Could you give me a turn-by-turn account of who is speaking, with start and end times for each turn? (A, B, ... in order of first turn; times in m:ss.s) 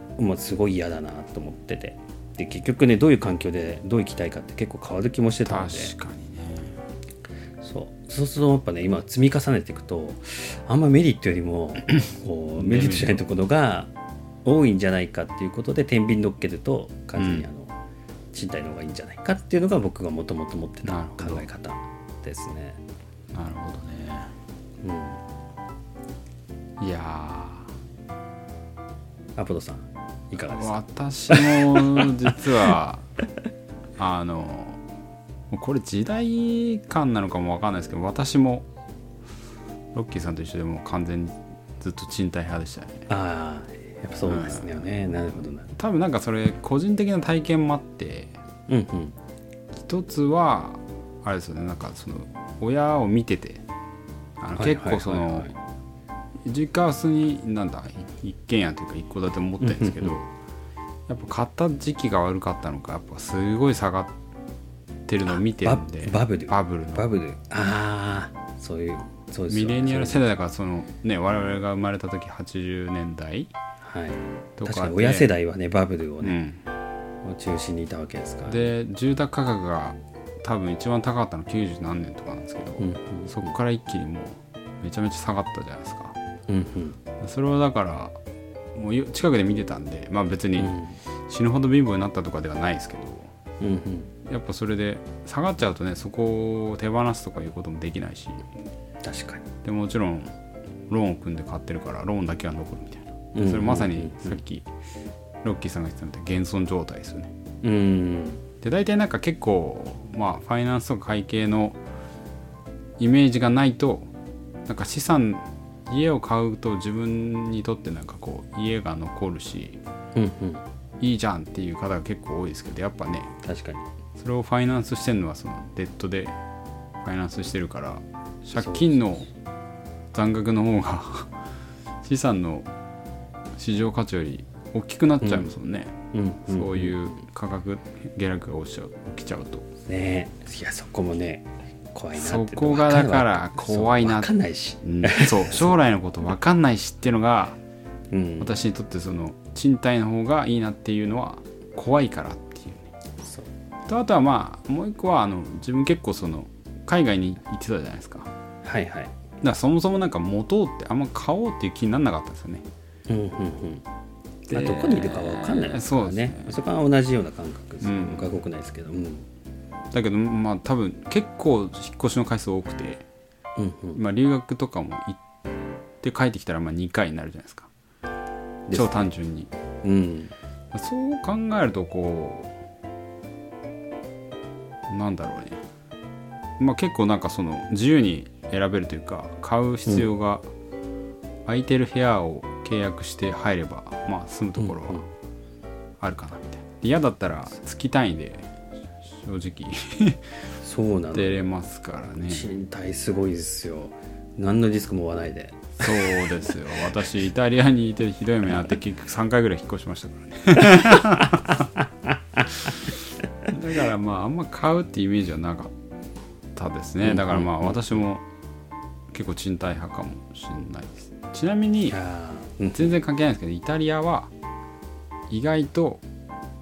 0:00.2-0:05.9 A
0:05.5-0:06.8 B
0:07.6-0:13.9 A
0:12.6-0:13.2 B
0:14.4-0:17.7 A
0:17.2-0:17.5 B
0:18.3-0:22.8 A
0:20.8-0:21.5 B
0:23.3-0:24.3 B
0:24.8-0:25.2 A
0:26.8-0:27.7 B
0:29.4-0:30.8 A
0:30.4-0:33.1 B
0:31.3-0:32.1 A
0:34.0-0:34.8 B
0:35.5-0:38.7 B
0:39.9-0:43.1 B
0:43.1-0:45.7 A
0:44.2-0:44.9 B
0:45.7-0:48.4 B
0:48.7-0:49.2 A
0:49.8-0:53.6 B
0:54.4-0:55.5 B
0:54.6-0:55.5 A
0:56.4-1:00.3 B
0:59.6-1:00.2 A
1:01.1-1:04.1 B
1:05.1-1:07.1 B
1:05.3-1:10.2 A
1:09.5-1:13.5 B
1:13.8-1:16.4 A
1:14.6-1:15.3 B
1:16.2-1:16.6 B
1:17.2-1:18.7 A
1:18.5-1:26.2 B
1:22.8-1:23.5 A
1:26.5-1:27.0 A
1:27.2-1:28.2 B
1:28.8-1:30.8 B
1:30.6-1:31.0 A
1:31.3-1:33.3 B
1:33.6-1:34.1 A
1:34.3-1:38.4 B
1:39.0-1:39.5 A
1:39.6-1:40.3 B
1:40.9-1:44.7 B
1:43.4-1:44.4 A
1:45.4-1:47.3 B
1:47.6-1:48.4 A
1:48.6-1:51.8 B
1:53.0-1:54.1 B
1:54.7-1:59.8 B
2:00.2-2:00.6 A
2:01.0-2:03.3 B
2:03.4-2:03.9 A
2:04.2-2:06.4 B
2:07.0-2:09.3 B
2:08.6-2:09.0 A
2:10.1-2:11.3 B
2:12.0-2:12.7 B
2:13.6-2:16.0 B
2:15.2-2:15.5 A
2:16.1-2:17.1 A
2:16.5-2:19.7 B
2:19.8-2:25.8 A
2:22.2-2:24.3 B
2:24.8-2:27.6 B
2:28.1-2:28.5 A
2:28.4-2:32.9 B
2:33.2-2:33.5 A
2:33.9-2:38.3 B
2:38.6-2:39.1 A
2:39.4-2:42.6 B
2:43.1-2:43.8 A
2:44.5-2:49.3 A
2:44.5-2:46.6 B
2:47.8-2:48.4 B
2:49.9-2:53.0 B
2:53.6-2:54.0 A
2:54.0-2:55.2 B
2:56.0-2:57.7 B
2:58.7-2:59.1 A
2:58.7-2:59.5 B
2:59.8-3:00.3 A
3:00.7-3:02.5 B
3:04.9-3:05.6 B
3:06.6-3:10.5 B
3:11.5-3:15.1 B
3:14.6-3:15.0 A
3:16.0-3:18.5 B
3:19.0-3:20.3 B
3:20.6-3:21.5 A
3:21.1-3:22.5 B
3:22.3-3:26.3 A
3:25.8-3:31.7 B
3:32.5-3:35.7 B
3:36.6-3:38.2 B
3:37.0-3:37.9 A
3:39.1-3:42.0 B
3:41.9-3:42.9 A
3:42.7-3:44.3 B
3:45.3-3:46.0 B